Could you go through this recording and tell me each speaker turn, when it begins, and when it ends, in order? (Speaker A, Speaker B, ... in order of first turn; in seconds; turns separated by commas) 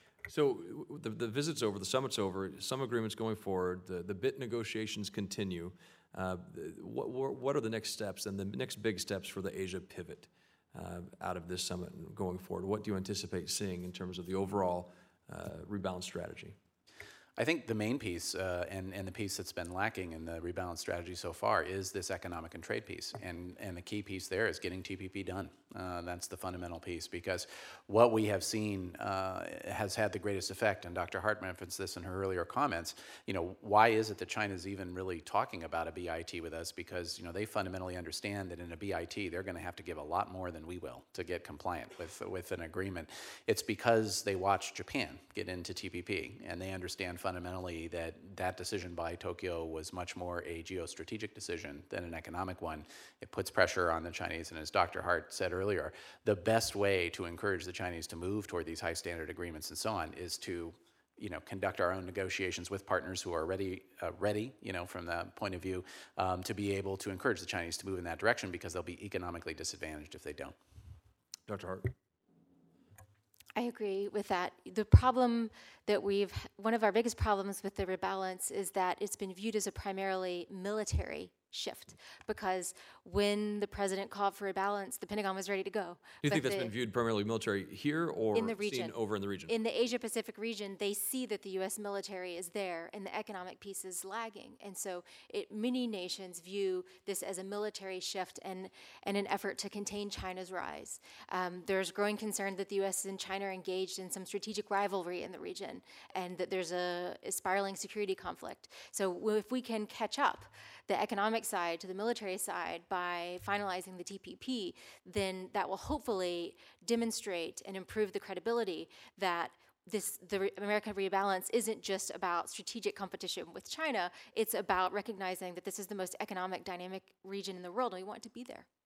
Speaker A: 0.3-16.6, Speaker B: 17.4-70.5, Speaker A: 71.5-71.9, Speaker C: 73.5-86.7, Speaker A: 86.2-89.5, Speaker C: 88.3-89.0, Speaker C: 89.5-128.7